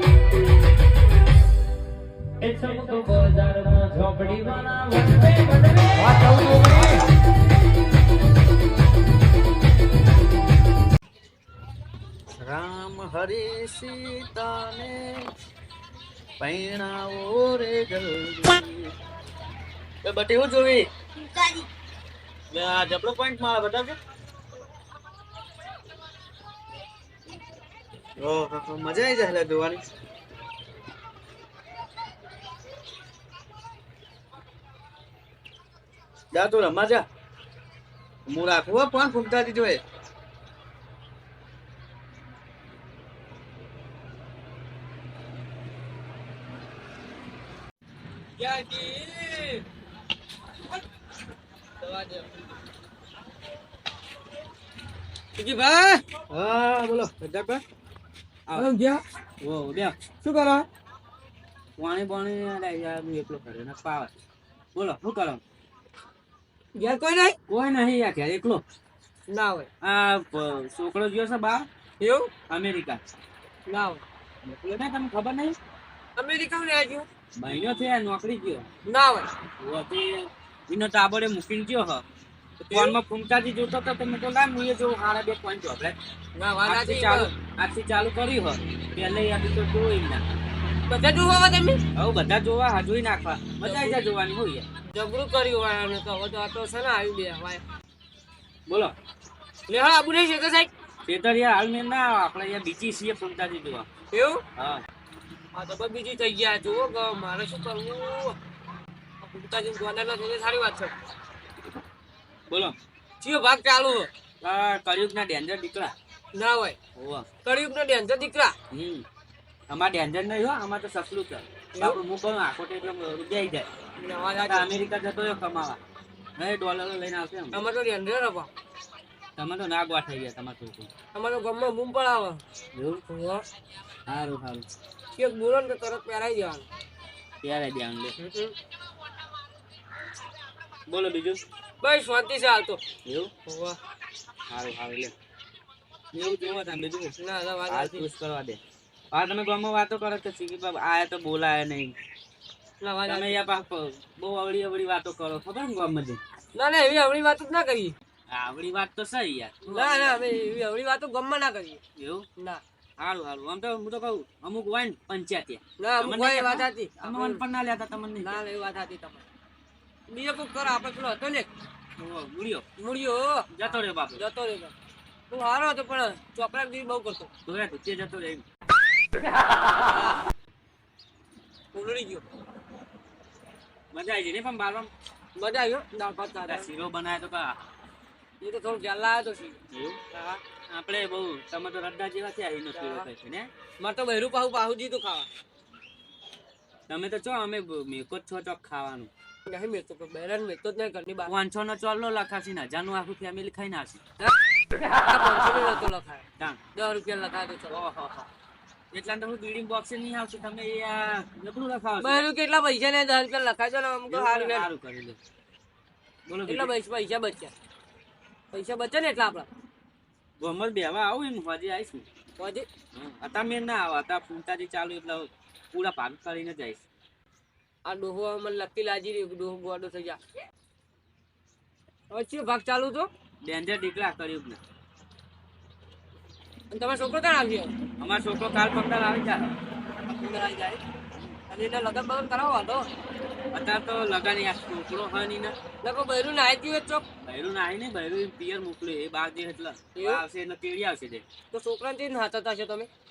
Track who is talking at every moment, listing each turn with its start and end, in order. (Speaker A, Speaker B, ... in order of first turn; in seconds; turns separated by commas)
Speaker A: 2.4-7.0, Speaker B: 12.4-15.3, Speaker B: 16.4-18.9, Speaker B: 20.0-20.9, Speaker B: 22.5-24.0, Speaker B: 28.2-29.8, Speaker B: 36.3-37.1, Speaker B: 38.3-39.8, Speaker A: 48.4-49.6, Speaker A: 51.8-52.3, Speaker A: 55.4-56.0, Speaker B: 56.3-57.6, Speaker A: 58.5-59.0, Speaker B: 59.4-60.0, Speaker A: 60.2-60.7, Speaker B: 61.8-64.1, Speaker B: 64.8-65.4, Speaker A: 66.8-67.4, Speaker B: 67.5-68.6, Speaker A: 69.3-69.7, Speaker B: 69.8-71.7, Speaker A: 72.0-72.3, Speaker B: 72.5-73.0, Speaker A: 73.7-74.0, Speaker B: 74.4-75.6, Speaker A: 76.2-77.1, Speaker B: 77.4-78.7, Speaker A: 78.8-79.3, Speaker B: 79.6-82.0, Speaker A: 82.6-83.0, Speaker B: 82.7-86.0, Speaker A: 86.4-87.3, Speaker B: 86.6-90.2, Speaker A: 90.9-91.8, Speaker B: 92.0-94.7, Speaker A: 93.6-94.0, Speaker A: 94.9-97.6, Speaker B: 98.7-99.0, Speaker A: 99.7-100.7, Speaker B: 101.0-103.9, Speaker A: 104.1-104.4, Speaker B: 104.6-104.8, Speaker A: 105.5-108.4, Speaker A: 109.2-110.9, Speaker B: 112.5-112.8, Speaker A: 113.2-114.1, Speaker B: 114.4-115.9, Speaker A: 116.3-116.8, Speaker B: 117.0-117.3, Speaker A: 117.4-118.5, Speaker B: 118.7-119.1, Speaker B: 119.7-123.7, Speaker A: 121.8-122.0, Speaker A: 124.0-124.7, Speaker B: 124.4-125.8, Speaker B: 126.4-127.6, Speaker A: 127.5-128.5, Speaker B: 129.4-130.9, Speaker A: 131.1-132.4, Speaker B: 132.7-133.0, Speaker A: 133.1-133.4, Speaker B: 134.1-134.7, Speaker A: 135.1-136.7, Speaker B: 137.4-138.2, Speaker A: 138.2-138.5, Speaker B: 140.9-141.4, Speaker A: 141.8-142.8, Speaker B: 143.1-143.3, Speaker A: 143.5-143.8, Speaker B: 144.5-145.1, Speaker B: 146.1-147.1, Speaker A: 147.2-148.1, Speaker B: 147.7-148.6, Speaker B: 149.1-152.0, Speaker A: 152.8-153.4, Speaker B: 153.1-156.2, Speaker A: 156.6-157.9, Speaker B: 158.3-160.3, Speaker A: 159.7-161.8, Speaker B: 162.0-162.3, Speaker A: 162.4-162.6, Speaker B: 163.0-168.4, Speaker A: 165.8-167.4, Speaker A: 168.2-169.2, Speaker A: 170.1-171.5, Speaker B: 172.0-172.7, Speaker A: 172.8-173.5, Speaker B: 173.5-174.2, Speaker A: 174.2-174.7, Speaker A: 175.3-177.3, Speaker B: 177.5-178.4, Speaker A: 179.9-180.2, Speaker A: 181.7-182.2, Speaker B: 183.9-184.9, Speaker A: 185.4-186.7, Speaker B: 186.4-187.6, Speaker A: 188.4-189.6, Speaker B: 189.7-190.0, Speaker A: 190.1-190.4, Speaker B: 190.7-193.5, Speaker A: 192.7-193.1, Speaker A: 193.8-195.3, Speaker B: 196.9-199.1, Speaker A: 199.5-201.3, Speaker B: 201.2-204.0, Speaker A: 204.2-206.2, Speaker A: 206.8-207.8, Speaker B: 207.7-208.3, Speaker B: 208.9-212.3, Speaker A: 212.0-214.7, Speaker B: 214.1-215.2, Speaker B: 216.3-216.7, Speaker A: 216.5-217.5, Speaker A: 218.5-219.5, Speaker B: 220.4-222.1, Speaker A: 222.4-222.7, Speaker B: 222.9-226.8, Speaker A: 227.8-230.2, Speaker A: 232.1-233.1, Speaker B: 233.4-234.6, Speaker A: 236.7-237.8, Speaker B: 238.0-239.6, Speaker A: 240.1-240.8, Speaker A: 241.5-242.9, Speaker B: 243.5-245.6, Speaker A: 245.8-247.1, Speaker B: 247.2-251.2, Speaker A: 249.9-250.2, Speaker A: 251.5-252.9